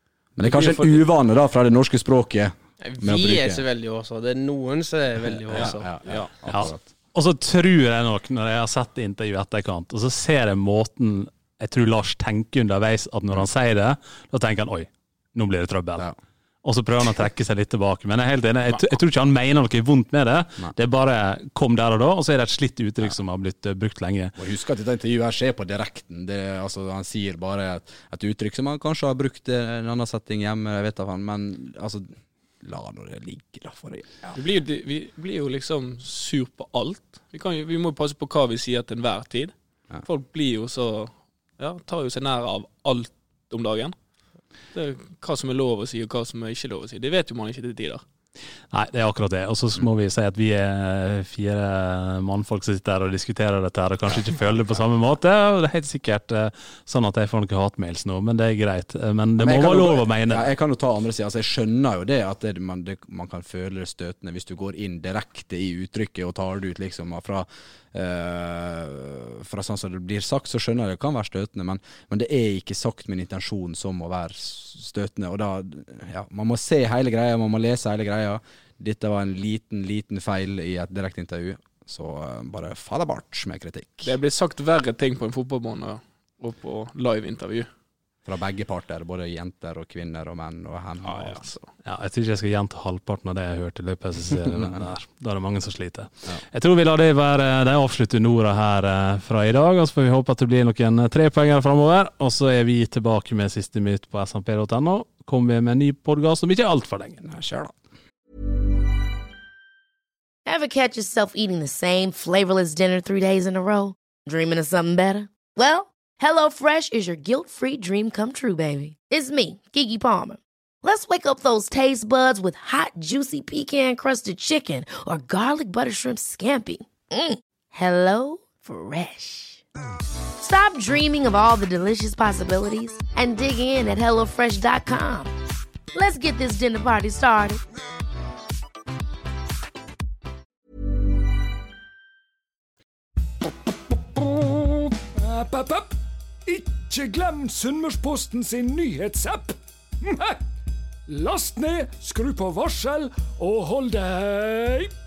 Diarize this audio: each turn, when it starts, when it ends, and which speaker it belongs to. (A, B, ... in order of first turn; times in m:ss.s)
0:00.4-0:03.6 A
0:00.4-0:01.0 B
0:02.8-0:05.9 C
0:05.3-0:06.9 A
0:05.5-0:06.3 B
0:06.5-0:16.1 D
0:16.6-0:24.4 D
0:24.4-0:34.4 A
0:34.3-0:44.0 B
0:44.7-0:48.0 B
0:48.7-1:00.5 D
0:54.1-0:54.3 A
0:59.4-1:24.2 A
1:24.0-1:27.7 B
1:28.2-1:31.5 A
1:31.0-1:31.7 B
1:31.8-1:47.3 D
1:34.5-1:34.9 A
1:47.2-1:47.7 A
1:50.5-2:09.6 E
2:10.4-2:15.3 E
2:15.9-2:17.6 E
2:23.9-2:30.5 F
2:31.1-2:34.9 F